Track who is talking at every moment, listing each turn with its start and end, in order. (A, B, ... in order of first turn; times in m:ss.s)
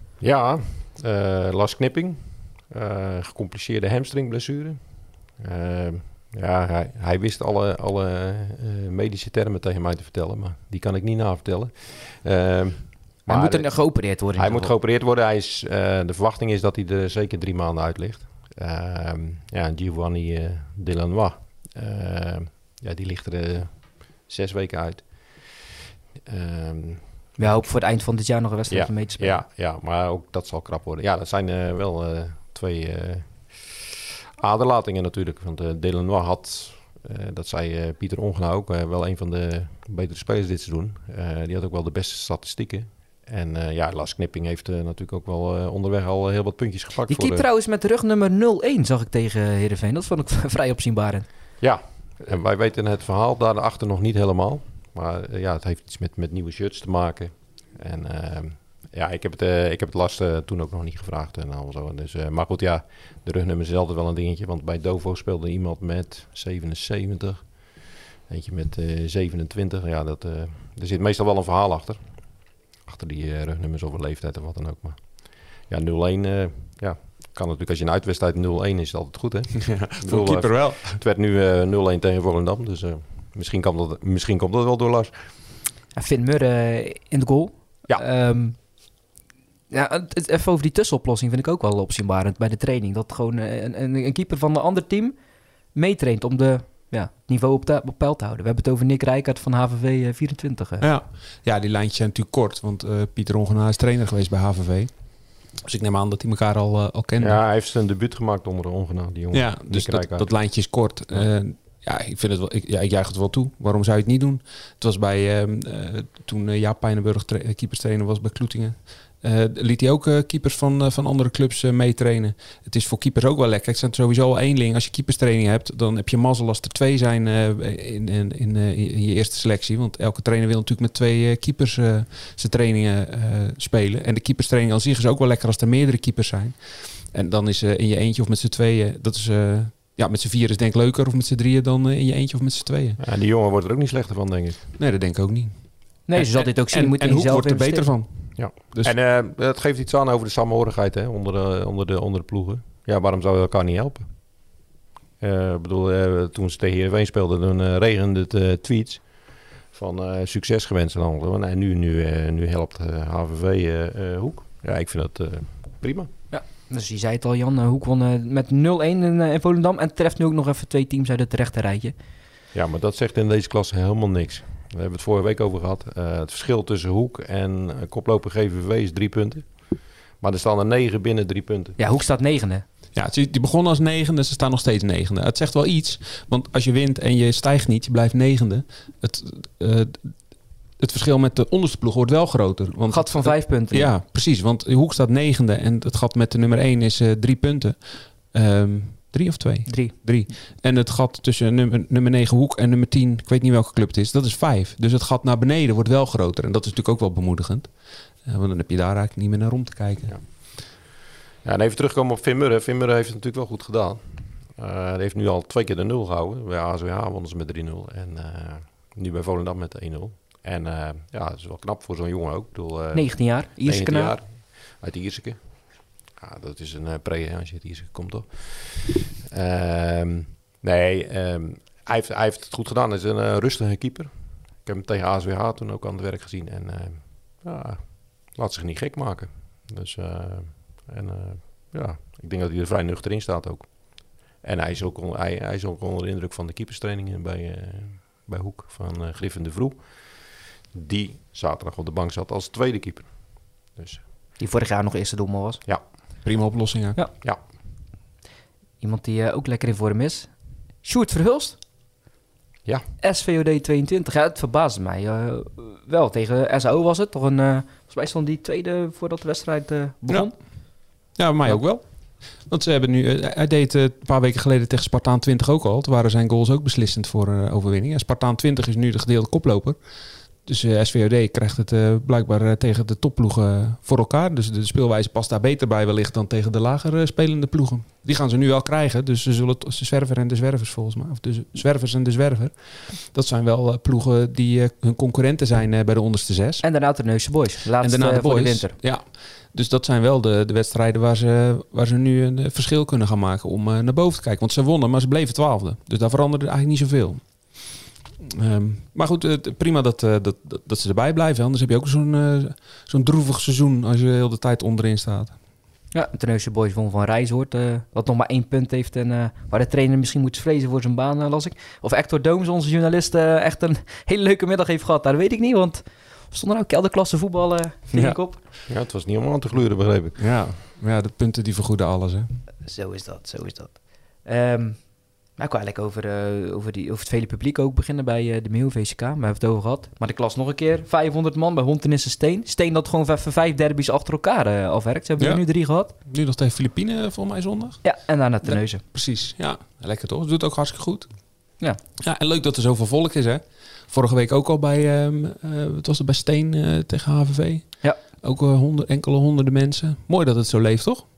0:00.2-0:25.7 A
0:13.3-0:14.7 B
0:26.2-0:27.6 A
0:27.4-0:29.4 B
0:28.7-0:33.8 A
0:34.4-0:47.4 A
0:47.1-0:51.2 B
0:51.6-1:25.4 A
1:19.6-1:21.0 C
1:25.9-1:28.9 B
1:29.7-1:35.2 B
1:35.7-1:40.8 B
1:40.8-1:47.4 C
1:47.2-1:50.3 A
1:49.3-2:23.0 C
2:23.0-2:24.7 A
2:24.8-2:28.9 C
2:26.1-2:27.9 B
2:28.4-2:34.5 A
2:35.2-2:46.1 A
2:46.3-2:51.9 B
2:52.5-3:01.8 A
3:01.8-3:02.6 B
3:02.9-3:10.1 C
3:10.8-3:27.7 C
3:12.9-3:13.9 B
3:19.7-3:20.3 B
3:28.2-3:30.2 C
3:30.1-3:30.8 A
3:31.4-4:14.0 A
3:42.9-3:44.1 B
4:14.4-4:15.6 B
4:16.2-4:17.0 C
4:18.8-4:21.6 B
4:23.0-4:30.4 B
4:30.9-4:39.8 C
4:40.4-4:56.6 C
4:56.6-4:58.8 B
4:57.8-5:15.3 C
5:15.9-5:28.4 B
5:27.9-5:28.2 C
5:28.7-5:30.3 A
5:30.2-5:32.3 C
5:32.6-5:45.9 B
5:45.2-5:51.1 C
5:47.8-5:48.8 B
5:52.0-6:01.0 C